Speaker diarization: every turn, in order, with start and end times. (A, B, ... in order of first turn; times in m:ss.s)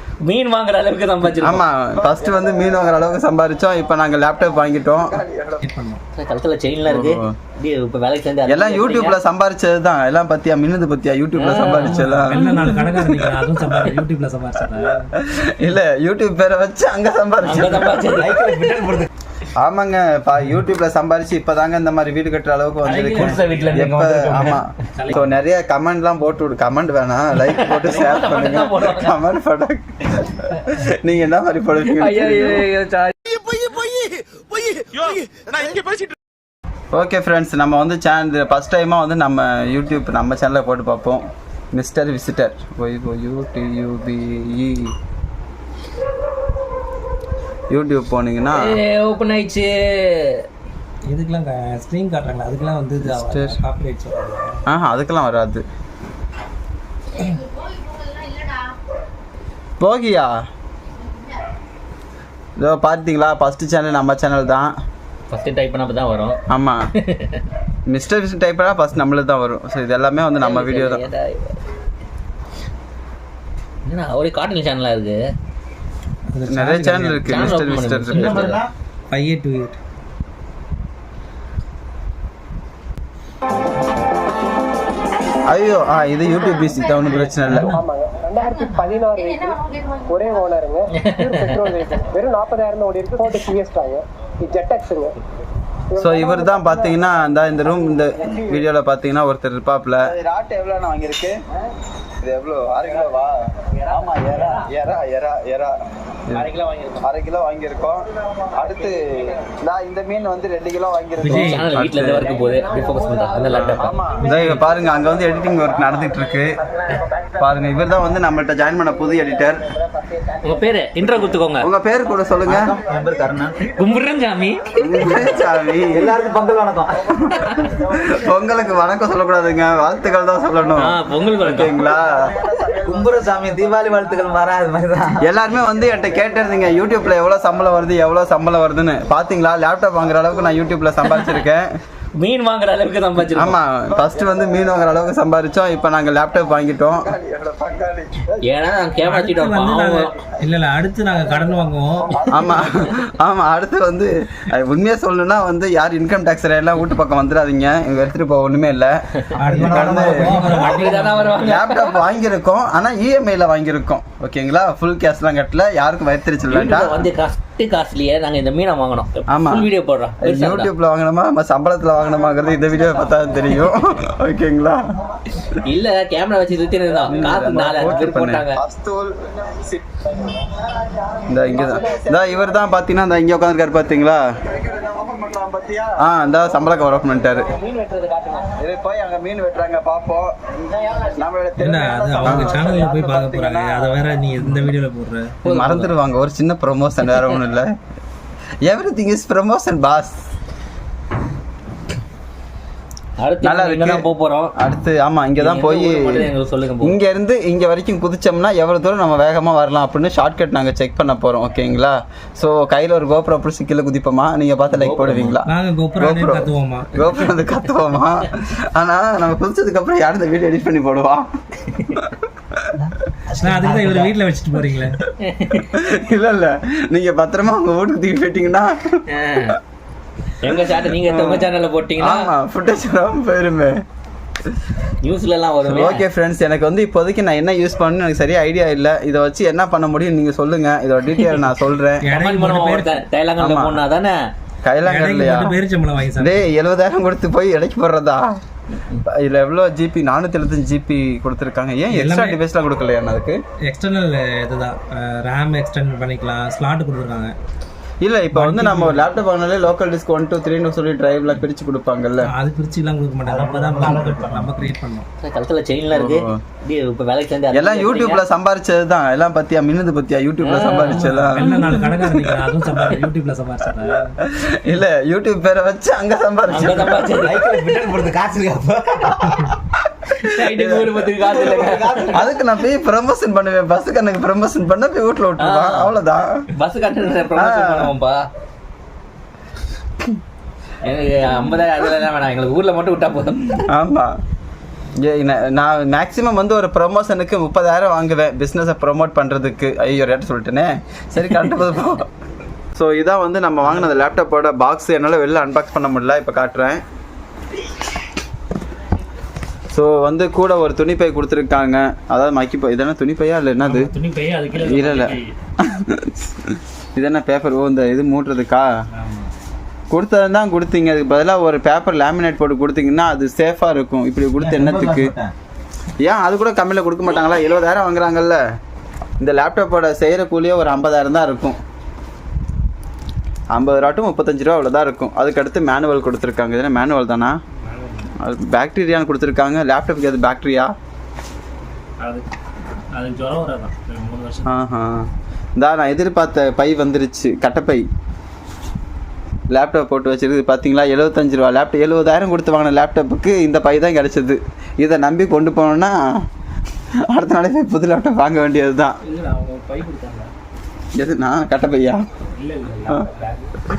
0:00.2-0:01.6 A
0:01.4-0:05.6 B
0:05.6-0:06.0 C
0:06.2-0:09.2 A
0:06.8-0:07.3 B
0:08.5-0:13.9 B
0:11.3-0:12.0 A
0:11.7-0:15.1 C
0:15.1-0:18.2 B
0:17.4-0:18.8 A
0:18.2-0:19.1 D
0:19.6-0:32.6 B
0:22.8-0:25.2 C
0:23.0-0:24.6 A
0:27.4-0:29.2 A
0:32.0-0:33.6 A
0:36.9-0:44.9 B
0:47.7-0:48.7 B
0:48.5-0:50.4 A
0:51.1-0:54.6 C
0:53.0-0:53.6 B
0:54.7-0:55.6 B
0:59.8-1:00.3 B
1:02.6-1:04.7 B
1:05.3-1:06.4 A
1:06.5-1:06.8 B
1:07.0-1:07.4 A
1:07.9-1:11.0 B
1:10.4-1:11.6 A
1:13.8-1:15.2 A
1:16.3-1:18.2 C
1:16.5-1:18.5 B
1:17.2-1:18.6 A
1:18.1-1:18.7 D
1:19.1-1:19.8 C
1:25.5-1:27.8 B
1:27.2-1:27.8 C
1:27.6-1:35.1 E
1:31.0-1:31.6 A
1:36.0-1:41.4 B
1:36.0-1:36.7 E
1:42.2-1:43.3 B
1:43.9-1:45.7 B
1:46.4-1:47.0 A
1:47.0-1:52.3 B
1:51.2-1:51.8 C
1:51.3-1:54.0 A
1:53.5-1:56.5 B
1:54.2-1:54.7 C
1:57.4-1:59.6 B
2:00.4-2:01.7 A
2:01.6-2:02.7 B
2:02.4-2:03.7 D
2:03.8-2:05.1 A
2:04.8-2:06.2 B
2:05.9-2:07.1 D
2:07.4-2:07.7 A
2:07.4-2:12.6 B
2:10.8-2:11.8 A
2:12.8-2:15.2 D
2:15.2-2:21.7 B
2:22.2-2:23.6 A
2:23.4-2:28.3 B
2:28.4-2:30.1 A
2:29.0-2:32.7 C
2:32.3-2:39.0 B
2:39.4-2:41.5 C
2:39.4-2:41.1 D
2:39.6-2:40.3 B
2:40.6-2:42.0 A
2:41.4-2:47.0 B
2:46.5-2:50.7 A
2:49.3-2:49.7 B
2:50.2-2:55.5 B
2:55.6-2:58.6 A
2:57.1-2:59.8 B
3:01.3-3:04.2 B
3:05.1-3:07.5 B
3:07.6-3:08.5 A
3:08.6-3:10.4 B
3:11.0-3:13.9 B
3:11.6-3:15.4 C
3:15.4-3:17.7 B
3:15.5-3:15.9 A
3:18.6-3:20.2 B
3:23.2-3:24.5 A
3:23.4-3:24.0 B
3:24.6-3:26.2 B
3:25.4-3:27.0 A
3:26.8-3:41.3 B
3:34.7-3:35.4 A
3:35.4-3:37.3 C
3:41.8-3:42.2 B
3:42.7-3:44.2 D
3:43.4-3:45.0 C
3:45.2-3:45.7 A
3:45.7-3:49.0 B
3:49.1-3:49.6 A
3:50.4-3:52.3 A
3:50.5-3:51.5 B
3:52.0-3:53.8 B
3:55.0-3:56.0 A
3:55.6-4:02.1 B
4:02.0-4:02.9 C
4:02.0-4:04.2 A
4:03.4-4:03.8 B
4:04.6-4:05.5 B
4:04.8-4:06.4 C
4:06.2-4:08.2 B
4:09.1-4:13.4 B
4:11.9-4:12.4 C
4:13.6-4:17.3 C
4:18.0-4:22.3 B
4:18.3-4:19.1 C
4:22.2-4:25.1 C
4:23.2-4:24.5 D
4:25.2-4:28.2 A
4:25.9-4:26.4 B
4:27.5-4:32.3 B
4:30.4-4:31.0 A
4:30.9-4:34.1 C
4:34.2-4:37.1 B
4:36.5-4:37.5 A
4:37.2-4:39.4 D
4:39.9-4:41.4 B
4:40.2-4:42.2 A
4:41.5-4:42.3 D
4:42.1-4:46.4 B
4:45.4-4:45.9 A
4:46.5-4:48.2 A
4:47.3-4:47.9 B
4:50.8-4:53.7 A
4:53.7-4:54.1 B
4:55.0-5:02.0 B
5:02.7-5:06.8 B
5:09.7-5:13.9 B
5:13.6-5:15.3 C
5:14.5-5:18.7 B
5:18.9-5:19.3 C
5:19.9-5:25.1 B
5:24.4-5:25.3 D
5:26.0-5:28.4 B
5:29.2-5:31.6 B
5:33.5-5:37.4 B
5:37.6-5:38.1 C
5:38.2-5:40.7 B
5:42.0-5:42.2 C
5:42.9-5:44.6 C
5:44.4-5:47.8 B
5:49.5-5:56.0 B
5:57.1-5:59.0 B
5:59.0-6:00.3 C
6:01.0-6:02.0 B
6:02.3-6:03.6 C